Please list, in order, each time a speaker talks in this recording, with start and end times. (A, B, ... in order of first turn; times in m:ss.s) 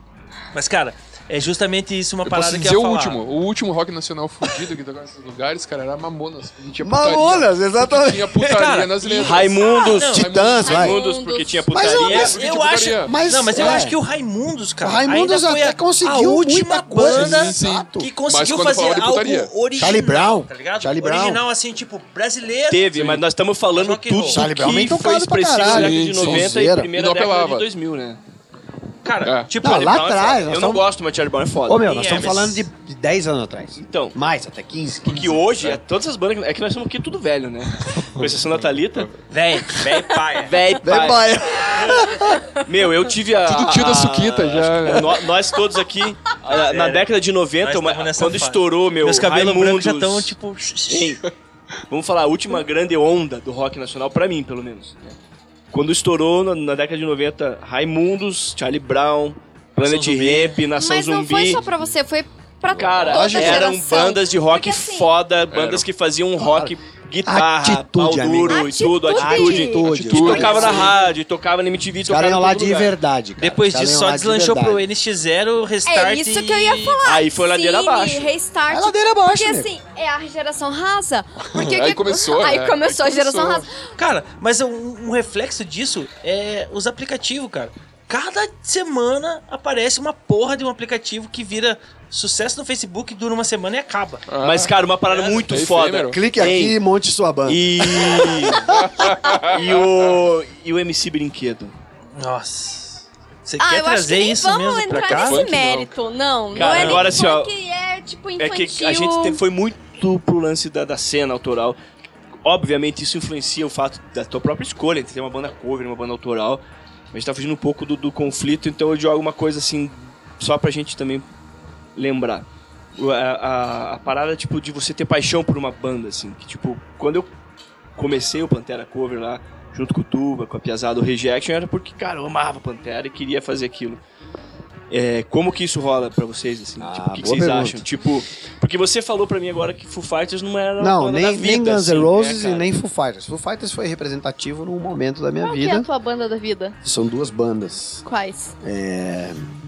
0:00.5-0:03.2 A
0:02.2-0:09.6 B
0:06.8-0:08.8 C
0:08.5-0:10.3 A
0:09.2-0:12.4 D
0:09.6-0:10.1 E
0:10.1-0:11.0 C
0:10.1-0:10.8 B
0:10.6-0:12.1 E
0:11.7-0:12.4 C
0:12.1-0:23.2 A
0:12.1-0:13.2 B
0:13.0-0:14.0 C
0:14.8-0:18.1 C
0:17.0-0:19.5 B
0:19.8-0:21.4 C
0:22.7-0:28.2 D
0:23.7-0:24.5 A
0:24.3-0:26.9 C
0:25.6-0:27.7 B
0:29.0-0:30.4 A
0:29.2-0:29.5 B
0:29.6-0:30.8 C
0:29.7-0:32.3 D
0:31.7-0:35.4 C
0:31.8-0:32.7 A
0:33.8-0:34.2 D
0:35.0-0:39.1 D
0:38.0-0:39.1 B
0:39.3-0:40.6 A
0:40.4-0:41.3 D
0:40.8-0:42.5 C
0:42.6-0:50.4 D
0:43.4-0:45.3 B
0:46.5-0:47.1 A
0:47.6-0:51.2 A
0:50.9-0:51.2 D
0:51.9-0:55.2 D
0:55.7-1:01.6 D
0:59.8-1:00.6 A
1:00.8-1:05.1 E
1:02.7-1:12.9 D
1:03.0-1:03.8 C
1:05.5-1:05.9 B
1:06.4-1:11.0 C
1:08.5-1:10.8 E
1:09.9-1:10.9 B
1:12.1-1:14.8 C
1:13.4-1:17.0 A
1:15.9-1:23.7 E
1:17.0-1:18.3 D
1:18.7-1:19.7 C
1:21.4-1:23.7 B
1:24.0-1:34.2 A
1:34.3-1:36.2 B
1:34.4-1:36.8 D
1:36.1-1:38.9 C
1:37.5-1:41.8 D
1:38.6-1:40.1 B
1:42.2-1:45.5 A
1:43.6-1:49.4 E
1:44.9-1:45.9 B
1:46.5-1:47.5 D
1:46.6-1:47.1 A
1:48.4-1:51.8 D
1:52.4-2:01.3 D
2:02.0-2:07.3 D
2:08.0-2:14.0 D
2:14.9-2:22.7 D
2:16.8-2:17.8 C
2:20.8-2:25.9 C
2:25.4-2:26.8 E
2:26.8-2:28.0 C
2:28.0-2:28.6 E
2:28.6-2:29.5 C